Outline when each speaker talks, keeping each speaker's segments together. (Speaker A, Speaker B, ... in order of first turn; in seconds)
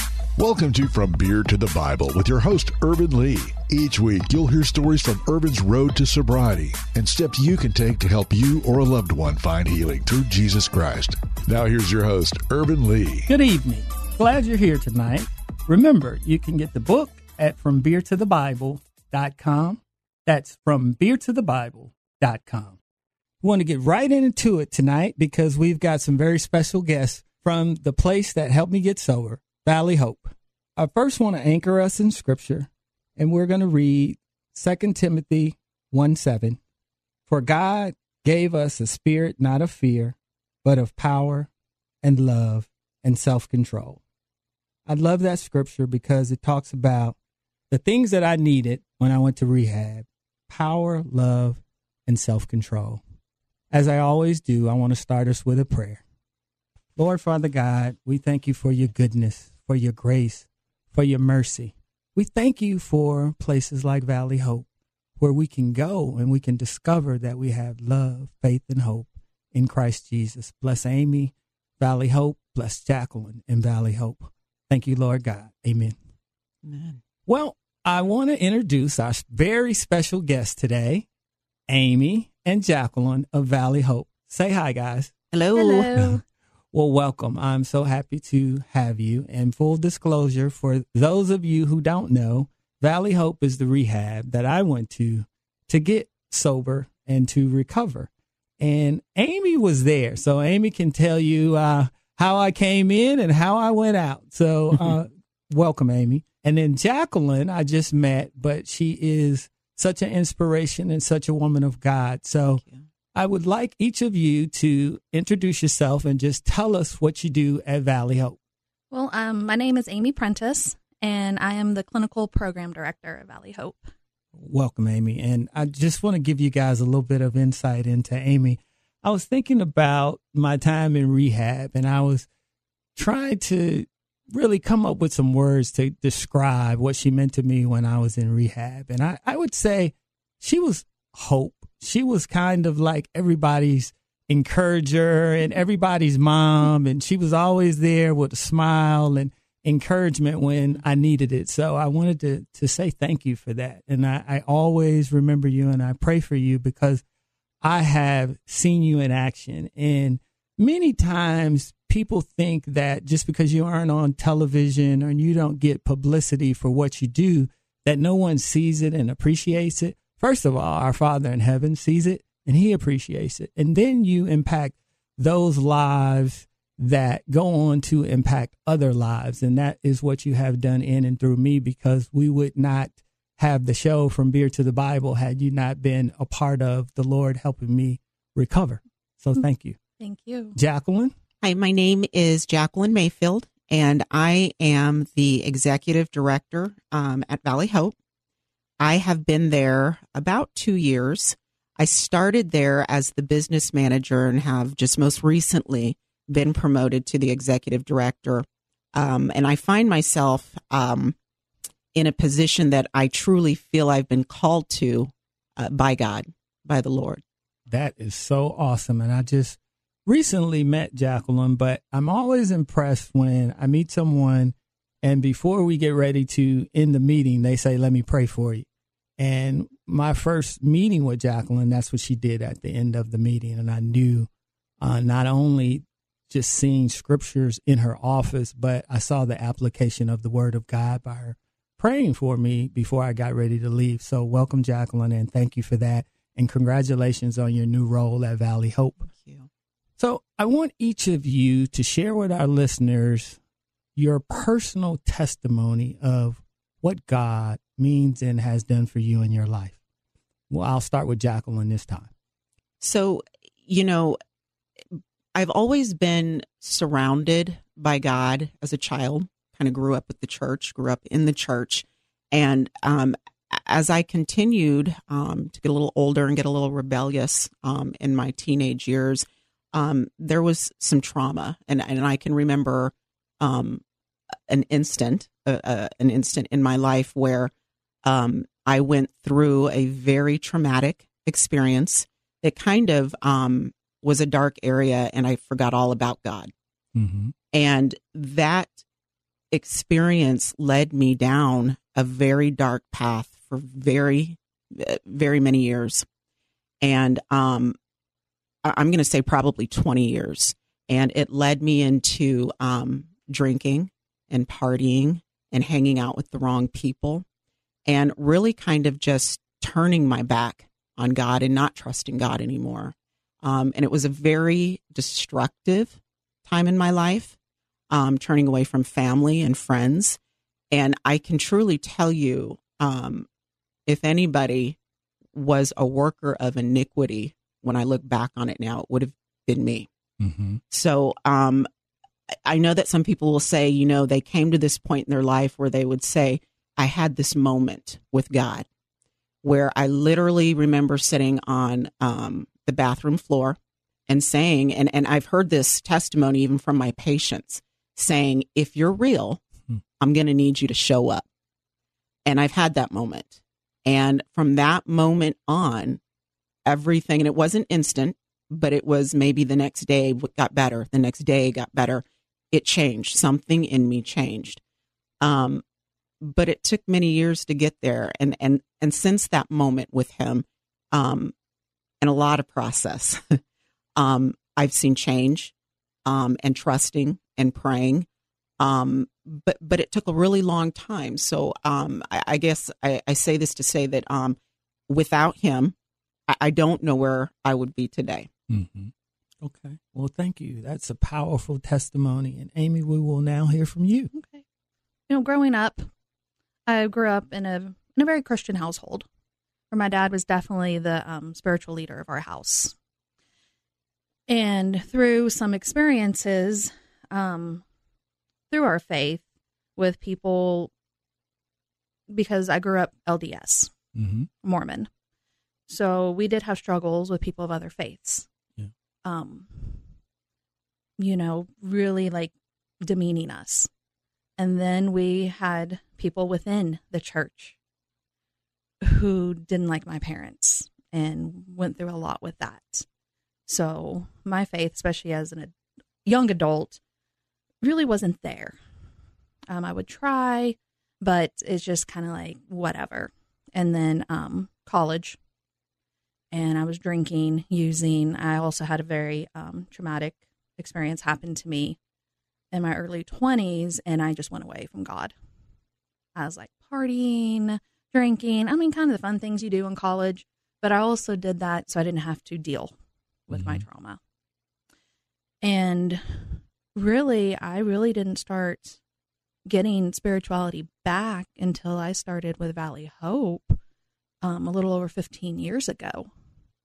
Speaker A: 0.3-13.3
Speaker B: 13.3-22.8, 23.4-36.6, 37.3-41.5, 42.0-44.0, 44.9-47.1, 47.7-53.0, 53.7-56.0, 57.0-64.7, 65.2-75.9, 77.3-81.0, 81.7-85.1, 86.7-112.6, 113.1-118.4, 124.3-132.3, 132.9-157.0, 157.6-189.8, 190.6-191.1, 217.7-228.7, 229.2-234.3, 234.8-249.0, 250.0-253.4, 253.9-259.8, 260.5-262.1, 296.9-297.3, 340.2-340.6, 398.5-404.1, 423.9-424.3, 473.3-473.6
Speaker C: 76.6-77.0, 85.3-86.1, 112.5-112.8, 191.4-197.9, 198.8-211.1, 211.9-217.2, 249.0-249.5, 262.8-264.2, 265.3-283.8, 284.5-287.5, 288.0-296.5, 297.5-298.8, 299.5-306.1, 306.8-307.7, 308.6-317.2, 317.9-327.3, 327.9-330.2, 330.7-333.3, 333.9-334.8, 335.3-339.9, 340.7-341.7, 342.4-348.7, 349.4-353.6, 354.1-359.4, 360.0-361.2, 362.2-366.0, 366.6-374.6, 375.2-375.6, 376.2-381.3, 382.0-383.4, 383.9-385.5, 386.0-388.1, 388.6-395.7, 396.3-398.3
Speaker D: 85.5-86.2, 118.9-123.9, 190.0-190.6, 404.1-404.4, 405.1-405.9, 406.7-409.1, 409.7-412.7, 414.3-417.6, 418.5-419.2, 419.8-420.7, 422.1-423.7, 424.4-424.9, 425.7-428.3, 429.0-429.8, 431.0-433.7, 434.4-437.6, 438.8-442.9, 443.5-445.5, 446.0-446.8, 447.6-448.6, 449.5-455.2, 456.3-461.8, 462.5-465.1, 466.1-472.7, 473.3-474.0, 475.4-478.8, 479.4-483.6, 484.2-486.1